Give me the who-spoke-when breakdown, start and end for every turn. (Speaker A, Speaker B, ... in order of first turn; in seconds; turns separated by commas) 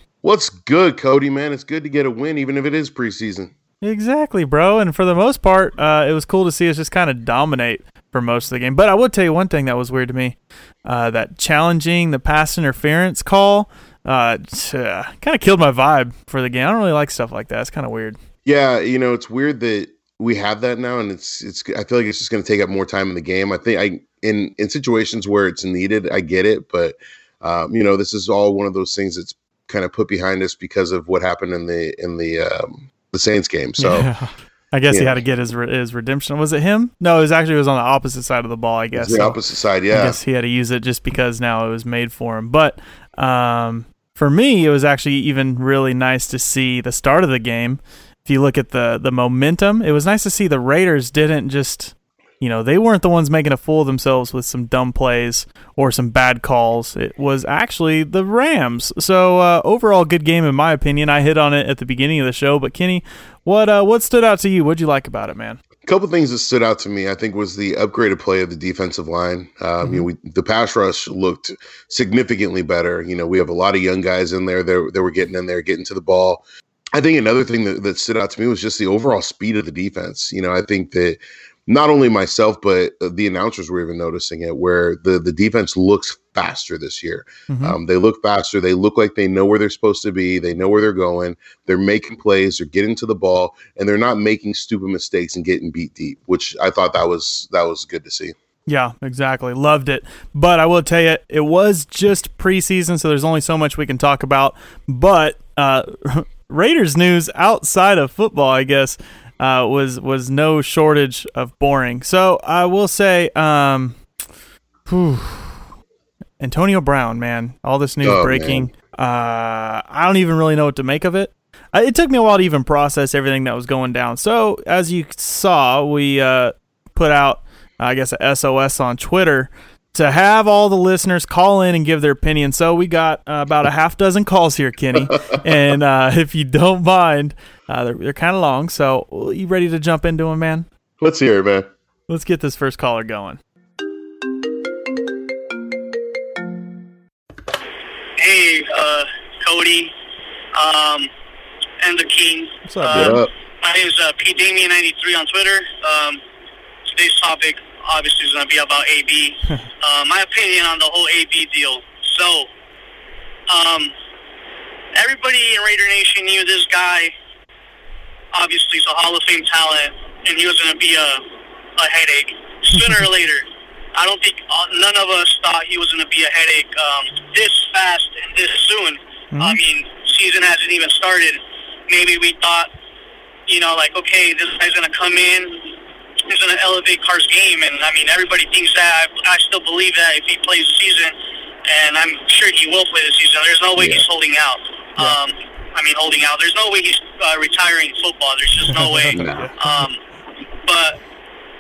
Speaker A: 0.2-3.5, Speaker B: 3.8-18.2, Speaker A: 18.4-34.1, Speaker B: 33.8-39.4, Speaker A: 34.9-35.2, Speaker A: 38.9-40.2, Speaker B: 39.9-65.6, Speaker A: 65.8-76.4, Speaker A: 77.0-98.3, Speaker B: 87.5-87.8, Speaker B: 98.7-114.0, Speaker B: 114.9-115.7, Speaker B: 116.4-140.7, Speaker A: 118.0-118.7, Speaker A: 141.0-141.7, Speaker B: 142.1-143.4, Speaker C: 148.2-149.9, Speaker C: 150.6-151.1, Speaker C: 151.8-156.2, Speaker B: 152.7-153.2, Speaker A: 152.9-153.3, Speaker C: 156.9-162.5, Speaker C: 163.5-163.9, Speaker C: 164.9-167.1, Speaker C: 168.3-171.2, Speaker C: 171.8-182.7, Speaker B: 172.7-173.0, Speaker B: 179.3-179.6, Speaker C: 183.5-185.8, Speaker C: 186.3-191.2, Speaker C: 191.7-200.0, Speaker A: 193.8-194.1, Speaker B: 198.7-199.7, Speaker A: 199.1-199.5, Speaker C: 200.6-201.0